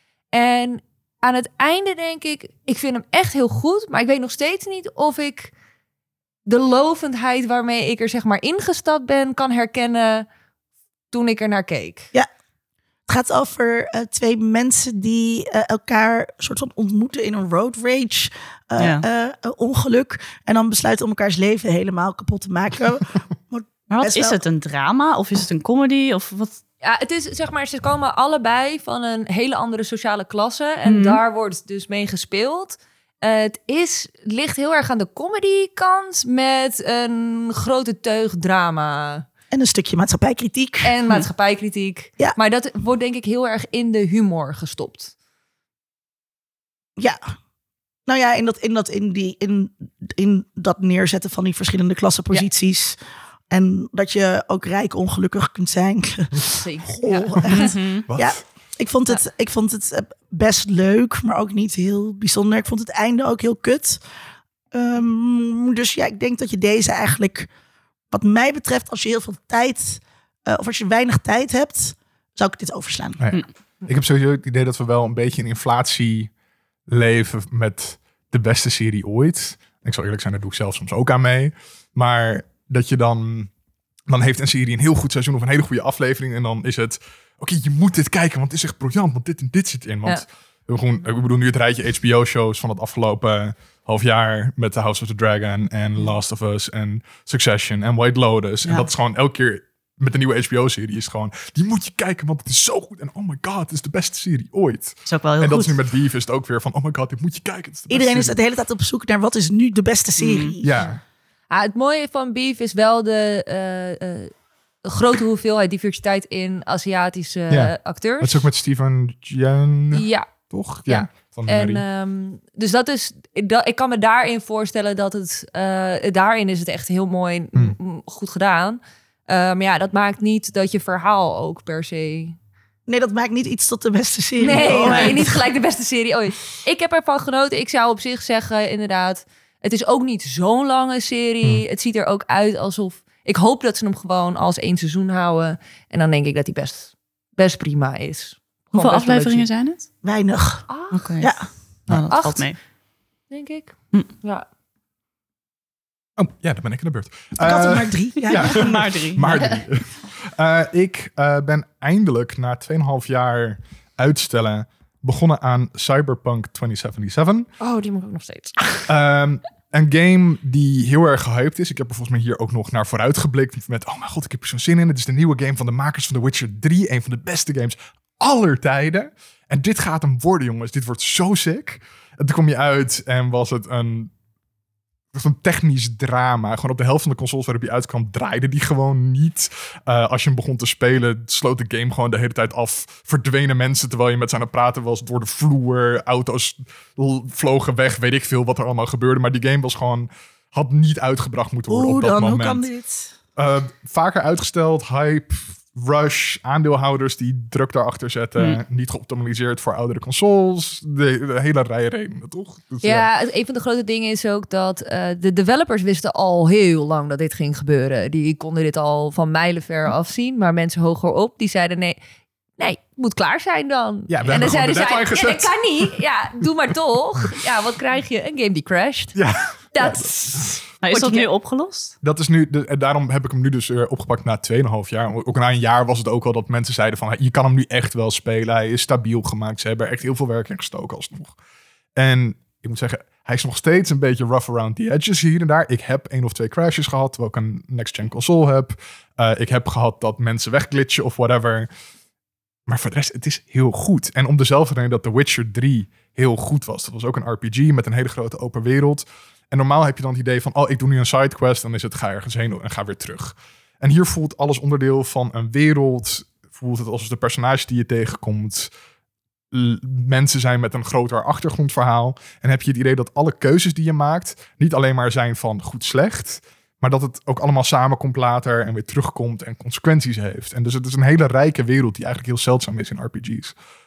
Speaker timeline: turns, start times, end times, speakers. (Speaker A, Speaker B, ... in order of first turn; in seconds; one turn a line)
Speaker A: 0.3-5.5
Speaker A: 6.5-10.3
Speaker A: 11.1-12.1
Speaker B: 13.1-24.4
Speaker C: 18.8-19.0
Speaker C: 23.9-26.6
Speaker A: 26.8-39.3
Speaker C: 30.8-31.2
Speaker B: 39.5-40.9
Speaker A: 40.8-45.1
Speaker B: 47.0-47.3
Speaker B: 48.0-53.0
Speaker B: 53.5-64.0
Speaker A: 56.5-57.7
Speaker C: 57.5-58.0
Speaker D: 58.1-58.4
Speaker B: 64.7-67.5
Speaker B: 68.1-73.2
Speaker D: 73.2-76.3
Speaker D: 76.9-83.5
Speaker D: 84.1-108.4
Speaker C: 105.0-105.8
Speaker B: 107.9-110.9
Speaker C: 110.2-110.5
Speaker D: 110.6-111.0
Speaker A: 111.5-118.4
Speaker D: 117.5-121.8
Speaker A: 119.9-120.3
Speaker A: 120.8-132.4
Speaker B: 132.9-135.4
Speaker A: 134.4-149.5
Speaker C: 134.6-135.2
Speaker C: 148.7-149.9
Speaker B: 150.0-150.7
Speaker A: 150.7-151.1
Speaker C: 150.9-152.6
Speaker B: 151.2-151.5
Speaker A: 152.1-152.5
Speaker A: 153.3-154.4
Speaker D: 156.2-167.5
Speaker B: 157.4-158.7
Speaker C: 158.3-159.4
Speaker A: 159.3-159.6
Speaker A: 167.6-168.9
Speaker D: 168.9-184.1
Speaker D: 185.1-202.6
Speaker B: 201.7-203.1
Speaker D: 203.3-213.1
Speaker A: 212.8-222.0
Speaker A: 222.6-229.2
Speaker D: 224.1-225.9
Speaker D: 229.1-230.5
Speaker A: 229.7-231.2
Speaker C: 230.8-231.9
Speaker D: 232.0-241.3
Speaker D: 241.9-251.7
Speaker D: 252.7-268.7
Speaker D: 269.5-283.5